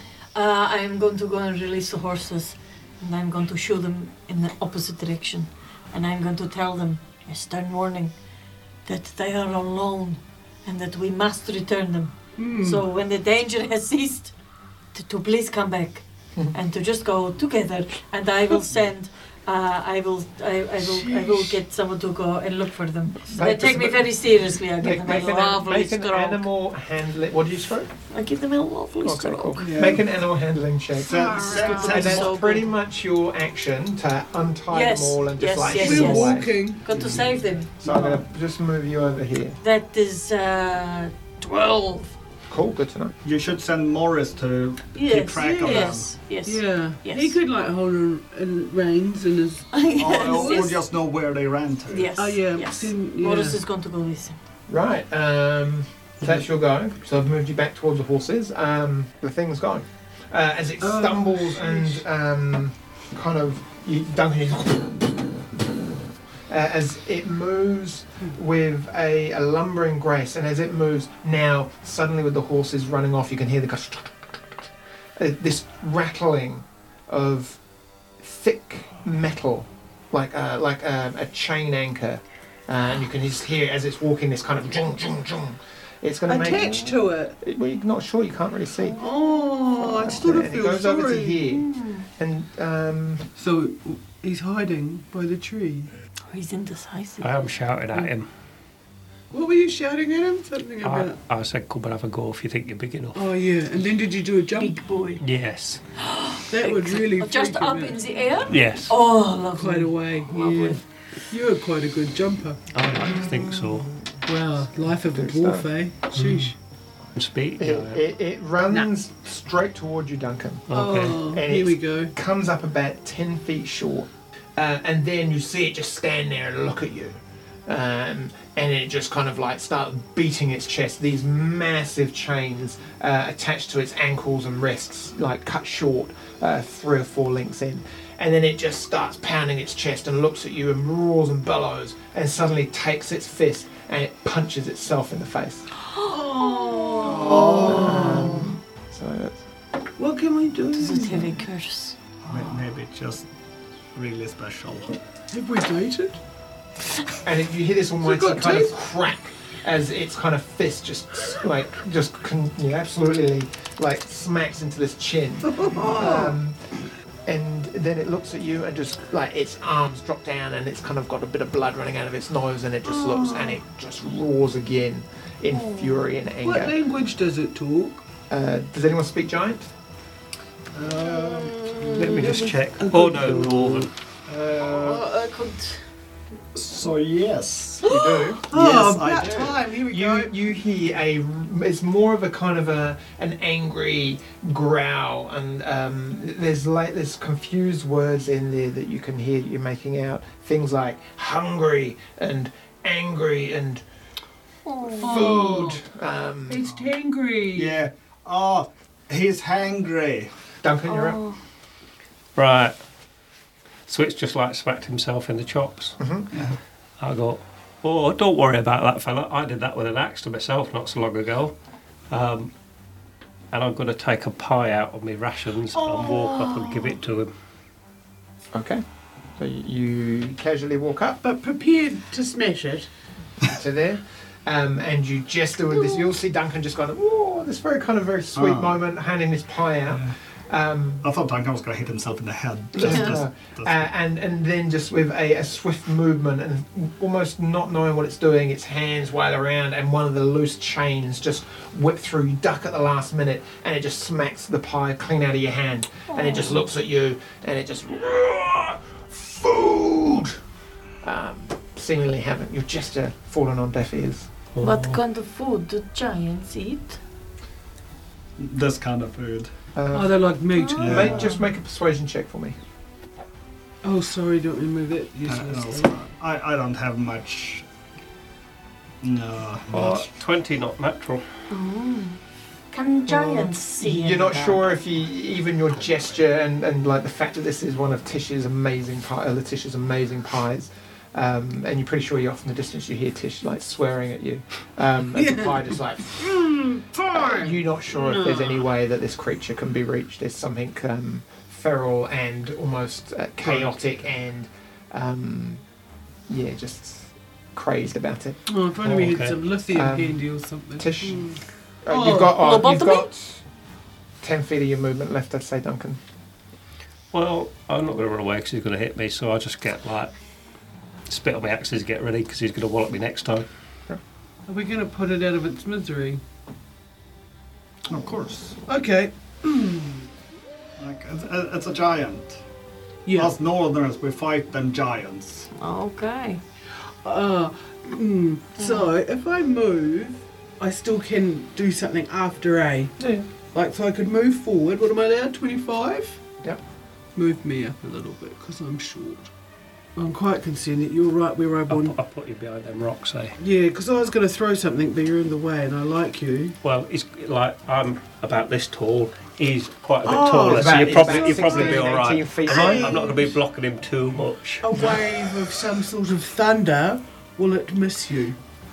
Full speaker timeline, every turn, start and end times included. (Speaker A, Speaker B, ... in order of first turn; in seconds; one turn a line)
Speaker A: 0.3-8.1
Speaker A: 8.9-14.3
Speaker B: 12.4-12.8
Speaker A: 14.9-26.5
Speaker B: 20.8-21.6
Speaker C: 23.3-27.9
Speaker A: 28.1-29.7
Speaker C: 29.0-36.5
Speaker D: 29.6-30.1
Speaker D: 31.0-32.3
Speaker B: 31.1-32.2
Speaker A: 31.3-32.7
Speaker A: 34.7-38.1
Speaker B: 35.7-36.8
Speaker C: 37.8-39.6
Speaker B: 37.9-38.2
Speaker A: 39.6-42.1
Speaker C: 42.5-43.1
Speaker D: 43.2-46.1
Speaker A: 45.0-47.4
Speaker B: 45.4-50.7
Speaker A: 49.7-50.8
Speaker D: 50.0-52.1
Speaker A: 51.9-54.4
Speaker B: 52.2-53.6
Speaker C: 54.7-74.4
Speaker B: 60.8-62.0
Speaker C: 75.2-77.6
Speaker C: 78.2-89.0
Speaker B: 86.3-87.4
Speaker B: 89.0-91.5
Speaker C: 89.8-93.2
Speaker A: 91.6-92.0
Speaker B: 93.4-95.9
Speaker A: 96.3-97.3
Speaker E: 97.2-98.3
Speaker B: 99.3-101.2
Speaker E: 100.8-103.2
Speaker B: 103.2-104.8
Speaker A: 104.5-105.2
Speaker E: 105.2-105.8
Speaker A: 106.0-110.8
Speaker B: 106.5-108.0
Speaker E: 108.5-109.0
Speaker B: 109.6-112.6
Speaker E: 112.7-113.9
Speaker B: 114.2-116.5
Speaker C: 115.0-115.7
Speaker E: 116.2-116.5
Speaker E: 117.2-118.0
Speaker C: 117.6-145.7
Speaker E: 120.7-121.2
Speaker B: 120.7-122.1
Speaker A: 146.0-148.4
Speaker B: 146.1-148.5
Speaker D: 147.0-147.8
Speaker C: 147.4-149.4
Speaker B: 150.0-151.5
Speaker A: 150.7-152.0
Speaker D: 152.3-153.3
Speaker D: 153.9-155.0
Speaker B: 155.3-156.2
Speaker C: 157.2-166.6
Speaker B: 158.0-158.8
Speaker B: 165.4-166.4
Speaker C: 167.3-176.8
Speaker B: 172.8-173.6
Speaker A: 175.5-175.8
Speaker B: 176.4-178.0
Speaker C: 178.3-179.7
Speaker D: 180.7-182.1
Speaker A: 181.1-182.2
Speaker B: 181.8-183.9
Speaker E: 181.9-183.9
Speaker D: 184.3-185.1
Speaker A: 184.6-185.8
Speaker D: 186.5-187.9
Speaker C: 187.9-188.4
Speaker D: 188.5-189.7
Speaker B: 188.5-190.3
Speaker C: 189.9-203.8
Speaker A: 204.7-205.3
Speaker C: 205.0-206.7
Speaker B: 205.0-205.8
Speaker B: 206.5-207.8
Speaker D: 207.5-210.3
Speaker C: 210.6-211.2
Speaker A: 210.9-211.4
Speaker E: 212.4-212.8
Speaker E: 213.9-216.0
Speaker C: 216.0-216.3
Speaker E: 217.0-221.6
Speaker E: 222.1-222.5
Speaker E: 223.5-227.3
Speaker B: 225.8-226.9
Speaker C: 228.5-228.8
Speaker C: 229.4-231.2
Speaker B: 231.2-232.9
Speaker C: 233.4-241.1
Speaker D: 238.3-238.8
Speaker D: 241.0-243.9
Speaker C: 242.7-260.4
Speaker A: 256.1-256.6
Speaker C: 261.0-264.3
Speaker E: 264.6-265.0
Speaker A: 264.6-267.0
Speaker D: 268.4-269.5
Speaker C: 269.8-270.3
Speaker B: 269.9-271.4
Speaker A: 270.5-271.2
Speaker D: 270.8-271.3
Speaker C: 270.8-272.6
Speaker B: 273.8-275.9
Speaker D: 275.2-277.7
Speaker D: 279.0-280.1
Speaker E: 279.7-281.2
Speaker A: 281.5-282.2
Speaker A: 282.7-284.6
Speaker C: 283.1-296.3
Speaker B: 295.1-298.6
Speaker C: 297.1-305.6
Speaker D: 303.4-303.7
Speaker C: 306.3-308.4
Speaker B: 308.5-312.3
Speaker E: 308.8-309.4
Speaker C: 309.7-311.3
Speaker C: 311.9-313.4
Speaker A: 312.2-313.1
Speaker C: 314.2-316.0
Speaker E: 317.1-320.1
Speaker E: 321.1-323.5
Speaker B: 324.5-326.2
Speaker D: 327.9-328.6
Speaker B: 328.7-330.1
Speaker D: 330.8-332.4
Speaker B: 333.1-333.3
Speaker D: 333.1-335.5
Speaker A: 335.5-336.4
Speaker B: 337.0-342.9
Speaker A: 338.6-338.9
Speaker C: 343.0-343.3
Speaker B: 343.5-346.2
Speaker B: 347.1-349.3
Speaker B: 350.0-352.0
Speaker E: 351.7-353.4
Speaker B: 353.4-356.6
Speaker E: 356.6-365.0
Speaker B: 360.0-363.4
Speaker C: 360.4-363.0
Speaker B: 364.6-368.4